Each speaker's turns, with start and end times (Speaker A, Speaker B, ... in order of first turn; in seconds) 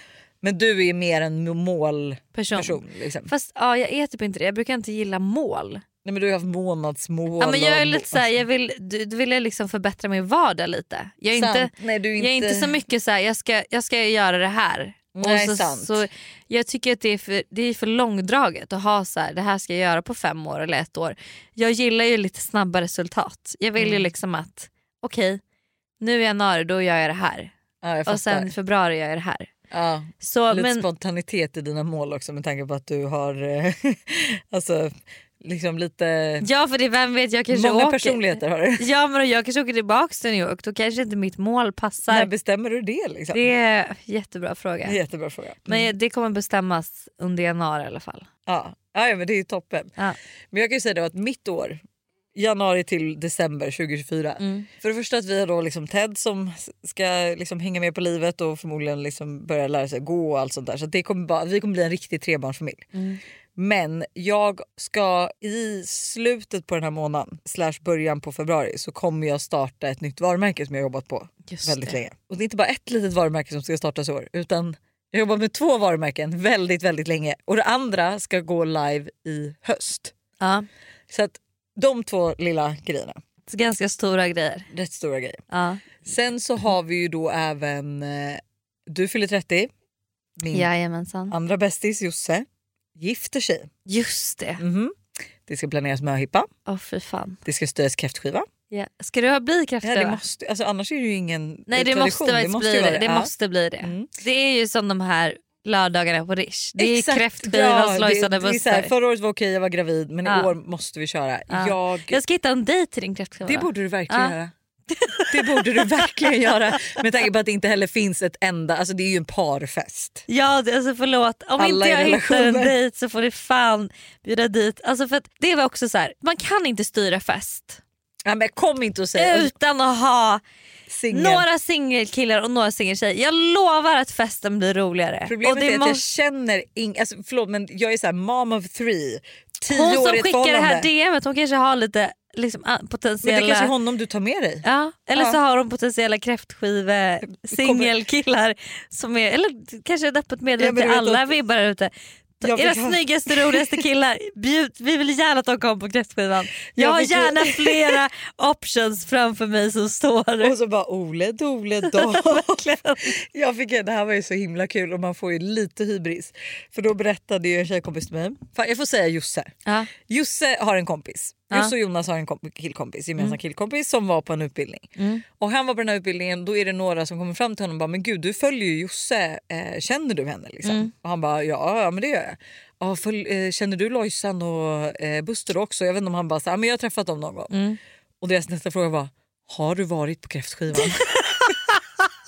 Speaker A: 0.4-3.3, 6.0-8.3, 11.3-12.8, 15.1-16.1, 23.8-24.1, 27.8-28.5, 29.7-36.5, 37.5-38.8, 42.1-43.4, 44.9-45.9, 48.5-49.9, 50.5-51.8, 52.4-62.9, 63.6-80.1, 81.1-83.2, 84.7-85.4, 86.0-89.7, 90.4-90.7, 91.3-92.5, 93.0-93.7, 94.6-96.5, 97.5-98.5, 99.8-103.3, 103.8-104.1, 106.8-112.2, 113.4-114.5, 115.3-120.2, 121.6-122.8, 128.2-129.5, 130.9-131.4, 135.2-140.9, 143.2-145.4, 147.2-147.9, 150.6-151.3, 152.4-153.8, 156.7-158.0, 160.4-169.5, 170.1-187.5, 188.2-191.1
Speaker B: 2.3-5.8, 7.4-25.4, 26.0-27.5, 28.1-29.5, 30.2-30.9, 36.4-42.3, 43.3-45.0, 45.6-48.3, 54.4-54.7, 62.9-63.2, 71.5-72.0, 80.4-80.7, 83.5-84.7, 85.5-85.8, 90.5-91.3, 93.9-94.6, 96.7-97.4, 98.7-100.2, 101.7-108.9, 110.2-110.5, 111.5-114.3, 114.9-117.0, 120.3-127.8, 129.2-130.4, 131.1-136.0, 139.7-143.7, 144.6-160.6, 161.8-163.1, 169.7-169.9, 175.0-175.2, 180.6-180.9, 187.5-187.8, 190.7-191.8